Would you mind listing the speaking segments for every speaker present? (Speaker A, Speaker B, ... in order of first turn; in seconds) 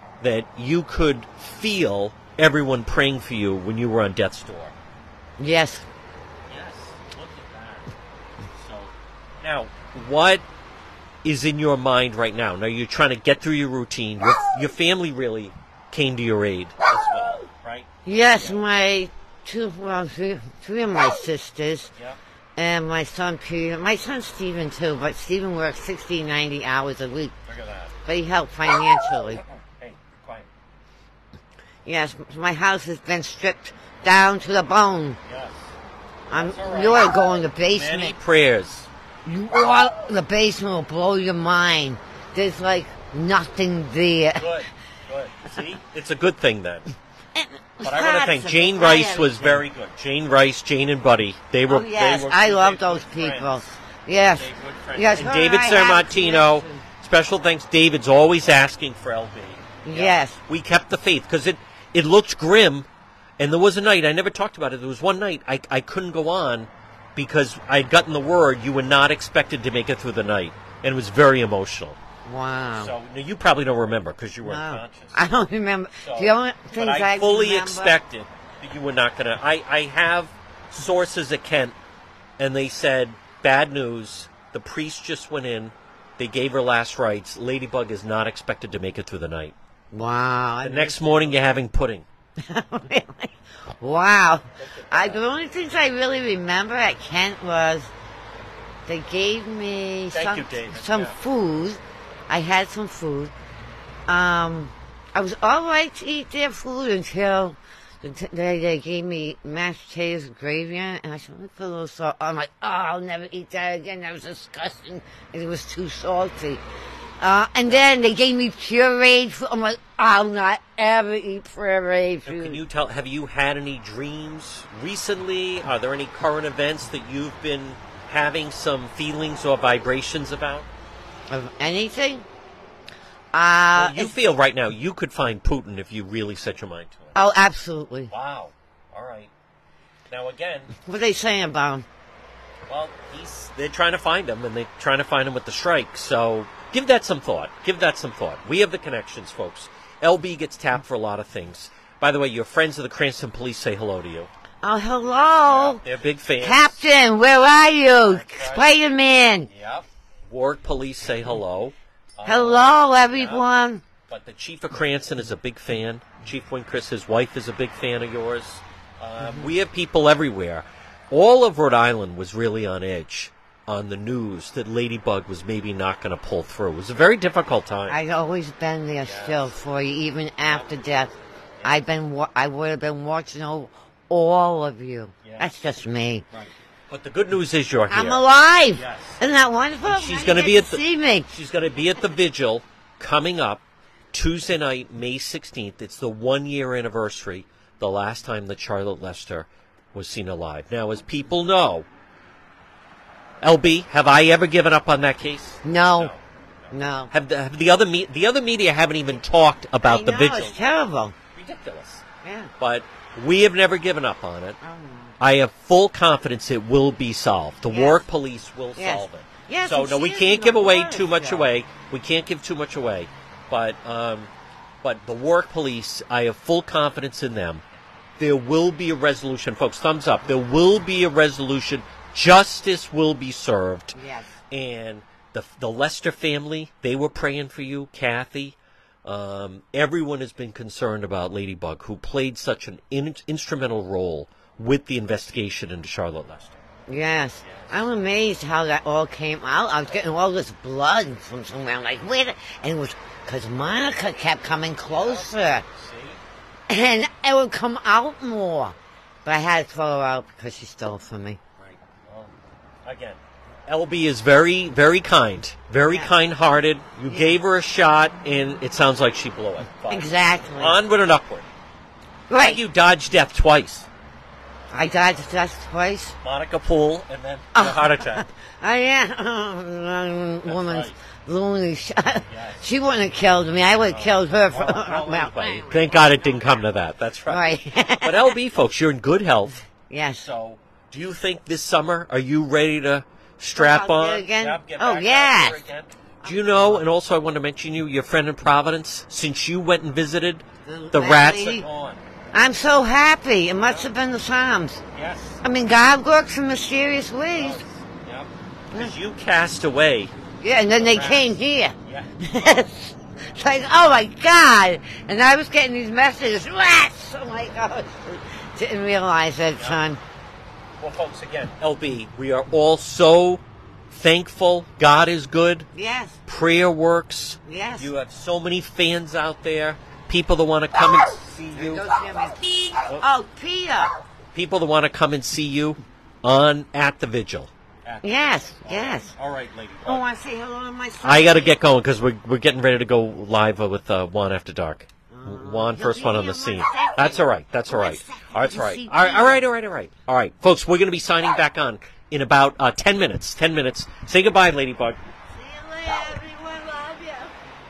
Speaker A: 0.2-4.8, 6.5-8.0, 8.5-10.4, 11.2-18.6, 27.5-27.9, 29.3-30.5, 35.2-35.7, 36.3-38.9, 44.4-46.9, 47.8-53.8, 54.3-62.9, 63.4-72.0, 72.8-75.2, 76.0-81.8, 82.4-89.5, 90.6-92.1, 94.6-95.2, 100.1-101.2, 122.3-130.7, 133.8-137.2, 138.1-139.3, 140.1-140.7, 142.7-154.3, 155.4-156.8, 158.1-158.7, 159.5-163.4, 164.1-178.0, 179.0-179.5, 180.4-180.7, 181.6-181.8, 186.3-188.2, 188.8-189.2, 189.8-201.9, 203.4-210.6, 211.3-212.0, 212.6-214.6, 215.2-224.3, 224.8-227.6, 228.2-234.0, 234.5-246.6, 247.4-247.9, 254.9-256.2, 261.6-271.5, 272.4-273.9, 276.2-278.2, 280.4-280.9, 282.3-282.6, 283.9-289.6, 290.2-302.0, 304.9-305.4, 307.4-310.1, 310.8-312.7, 320.8-325.7, 326.3-331.9, 334.3-340.1, 341.0-355.0
Speaker B: 5.4-5.9, 18.1-21.9, 22.6-27.3, 28.1-29.4, 31.9-35.2, 36.3-38.2, 39.2-44.5, 47.4-49.6, 51.7-56.8, 59.8-60.4, 72.2-72.9, 74.4-78.0, 89.9-91.0, 92.5-97.9, 98.9-103.3, 104.1-116.6, 117.2-122.6, 131.3-132.3, 133.3-134.2, 137.2-138.1, 140.9-141.9, 154.6-155.8, 156.4-159.5, 162.2-163.8, 169.2-169.5, 177.9-186.2, 187.9-191.3, 205.6-206.1, 206.7-207.1, 209.8-211.2, 212.2-212.5, 214.6-215.2, 217.7-218.0, 218.8-221.5, 233.9-234.3, 246.9-255.7, 256.7-261.4, 269.9-270.8, 272.3-272.6, 274.7-276.2, 277.6-286.0, 287.3-288.4, 289.9-290.3, 293.6-295.6, 296.2-296.8, 300.7-301.7, 302.3-304.8, 305.4-307.6, 310.4-320.0, 325.7-326.2, 327.5-327.9, 331.5-333.9, 338.0-339.1, 339.9-341.6, 345.1-349.4, 355.4-357.4